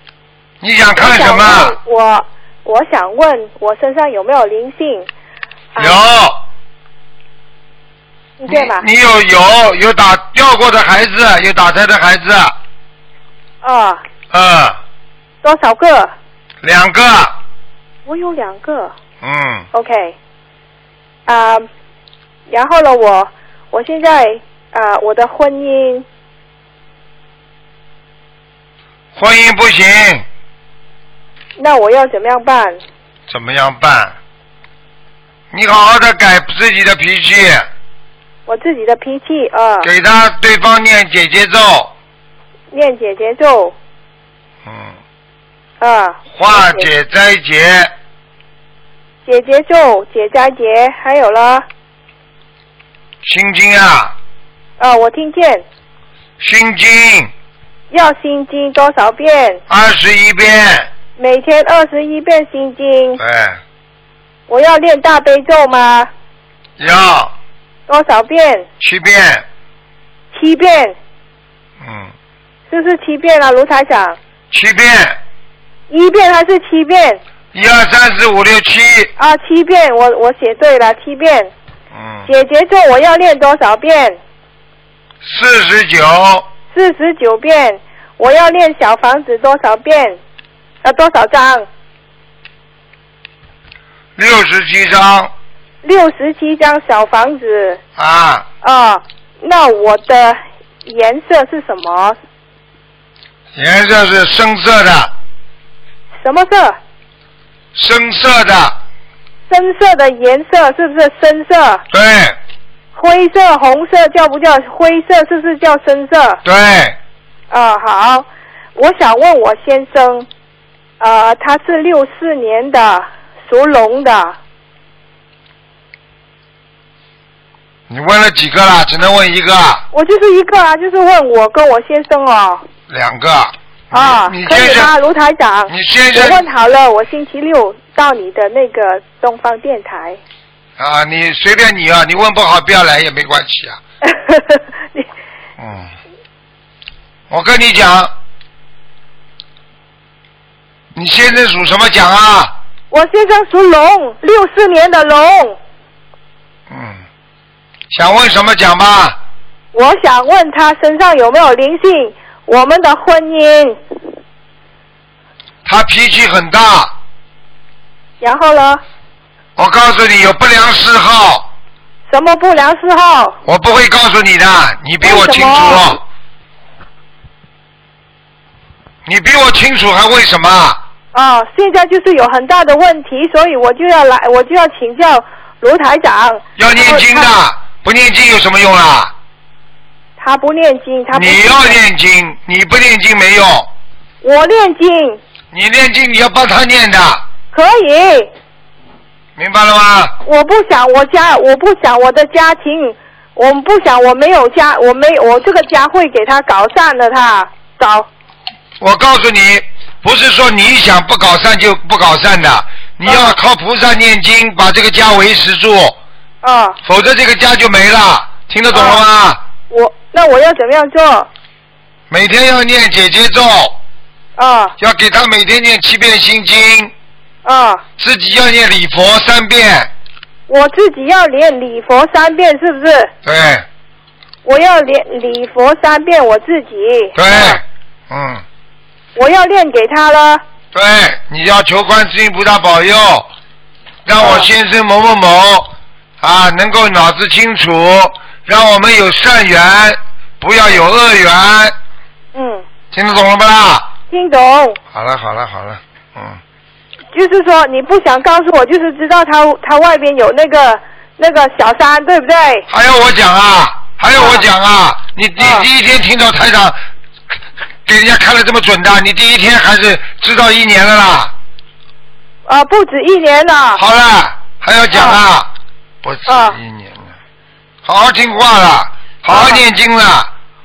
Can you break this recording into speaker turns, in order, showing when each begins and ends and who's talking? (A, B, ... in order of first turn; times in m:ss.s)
0:00.6-0:01.8 A
0:01.0-0:05.1 B
0:05.8-0:06.0 B
0:05.8-0:06.4 A
0:08.4-0:08.8 B
0:08.5-0:12.5 A
0:13.6-0:14.0 B
0:14.3-0:14.8 A
0:15.4-0:16.1 B
0:16.6-0:17.3 A
0:18.0-0:18.9 B
0:19.2-0:19.7 A
0:19.7-0:20.2 B
0:21.3-0:21.6 B
0:22.5-0:26.0 B
0:29.1-0:30.2 A
0:31.6-0:32.8 B
0:33.3-0:34.1 A
0:35.5-0:37.7 A
0:38.5-0:39.9 B
0:39.8-0:41.9 A
0:42.7-0:43.8 B
0:44.7-0:44.9 A
0:45.8-0:46.9 B
0:46.3-0:47.9 A
0:49.2-0:51.7 B
0:53.2-0:54.1 A
0:54.8-0:55.6 B
0:56.4-0:57.3 A
0:57.9-0:59.6 B
0:59.7-1:00.9 A
1:01.2-1:03.2 B
1:03.2-1:03.6 A
1:04.5-1:06.1 B
1:06.8-1:07.3 A
1:07.9-1:08.7 B
1:08.8-1:09.4 A
1:10.3-1:11.0 B
1:11.8-1:12.1 A
1:12.7-1:14.2 B
1:14.5-1:15.2 A
1:15.9-1:17.2 B
1:17.5-1:19.1 A
1:19.2-1:21.5 B
1:21.9-1:22.3 A
1:22.3-1:24.2 B
1:25.2-1:26.4 A
1:26.7-1:30.2 B
1:30.8-1:31.7 B
1:34.2-1:35.3 A
1:35.8-1:37.8 B
1:38.0-1:38.4 A
1:38.6-1:42.2 B
1:43.6-1:45.1 A
1:46.2-1:46.8 B
1:47.8-1:48.8 A
1:49.5-1:51.8 B
1:51.9-1:52.4 A
1:53.0-1:56.4 B
1:56.4-1:57.0 A
1:57.5-2:00.3 B
2:01.0-2:04.4 B
2:07.9-2:09.8 A
2:09.9-2:12.6 B
2:12.9-2:14.9 A
2:13.9-2:20.2 B
2:15.7-2:16.4 A
2:20.8-2:23.8 A
2:24.0-2:25.1 B
2:25.6-2:25.9 A
2:27.3-2:28.1 A
2:30.9-2:32.5 A
2:32.9-2:35.6 B
2:36.7-2:37.0 A
2:37.9-2:39.2 A
2:39.7-2:43.8 B
2:45.6-2:46.9 A
2:48.2-2:48.8 B
2:49.6-2:51.5 A
2:52.1-2:53.4 B
2:53.4-2:56.0 A
2:55.0-2:55.9 B
2:59.1-3:00.8 A
3:01.1-3:07.3 B
3:06.6-3:09.1 A
3:10.2-3:11.8 B
3:11.1-3:13.7 A
3:14.2-3:15.2 B
3:15.5-3:17.2 A
3:17.5-3:18.3 B
3:19.4-3:20.2 A
3:20.2-3:28.1 B
3:28.8-3:36.0 A
3:33.1-3:33.4 B
3:36.4-3:36.8 B
3:36.8-3:39.4 A
3:38.7-3:39.0 B
3:39.7-3:41.3 B
3:42.1-3:43.8 A
3:44.4-3:44.8 B
3:44.8-3:46.9 A
3:47.4-3:47.8 B
3:48.0-3:49.9 A
3:50.5-3:53.1 B
3:53.2-3:53.6 A
3:54.4-3:57.6 B
3:57.2-3:58.4 A
3:59.2-4:00.4 B
4:00.7-4:03.3 A
4:04.1-4:11.7 A
4:04.2-4:04.5 B
4:12.3-4:12.6 B
4:12.9-4:13.9 A
4:14.1-4:14.8 B
4:14.9-4:16.4 A
4:17.1-4:22.7 B
4:22.7-4:26.8 A
4:24.1-4:24.4 B
4:25.4-4:25.7 B
4:27.9-4:31.3 A
4:32.4-4:33.8 B
4:33.8-4:35.5 A
4:34.9-4:35.2 B
4:36.0-4:37.1 A
4:36.2-4:36.6 B
4:37.8-4:40.3 A
4:39.3-4:39.6 B